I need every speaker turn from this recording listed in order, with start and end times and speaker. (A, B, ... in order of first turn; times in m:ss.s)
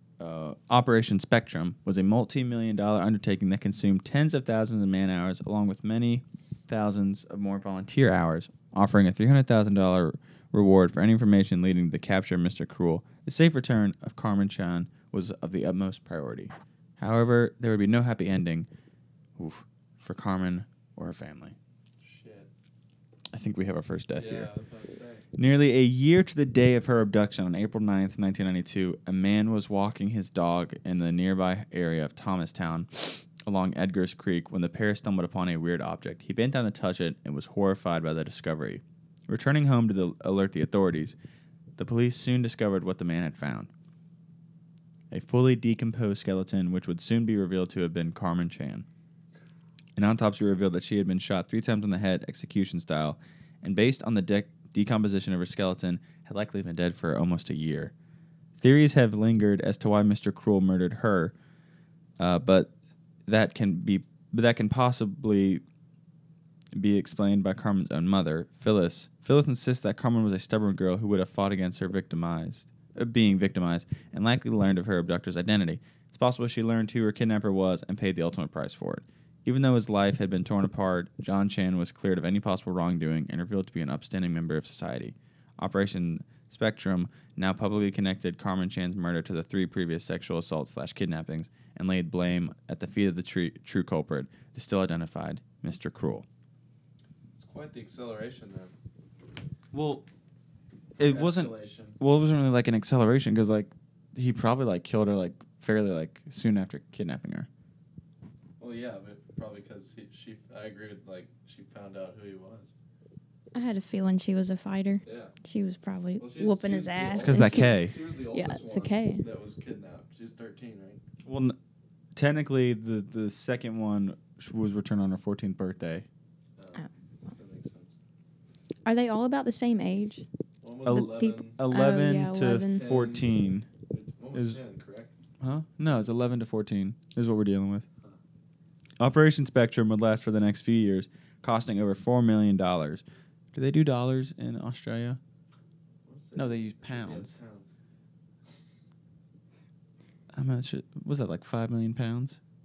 0:00.2-0:18.7 A
0:19.4-0:21.6 A
0:22.0-0:22.5 B
0:23.3-0:24.5 A
0:24.1-0:25.2 B
0:25.3-0:41.2 A
0:41.8-0:43.7 A
0:45.1-0:48.8 A
0:50.0-0:57.9 A
0:58.6-1:01.3 A
1:02.2-1:02.7 A
1:03.3-1:05.6 A
1:06.7-1:36.2 A
1:37.3-1:38.7 B
1:39.7-1:40.0 A
1:41.0-1:47.5 A
1:41.0-1:42.0 B
1:48.6-1:52.7 B
1:53.5-1:59.2 C
1:55.0-1:55.3 B
1:56.2-2:01.0 B
1:57.2-1:57.9 A
2:01.2-2:01.6 A
2:02.2-2:06.0 A
2:06.6-2:07.9 B
2:08.8-2:10.2 C
2:10.6-2:11.6 B
2:10.8-2:12.8 C
2:10.8-2:13.7 A
2:12.6-2:13.3 B
2:13.9-2:15.1 B
2:14.3-2:14.6 A
2:15.4-2:17.8 A
2:19.0-2:25.2 A
2:26.0-2:27.7 B
2:26.4-2:27.4 A
2:30.3-2:32.4 A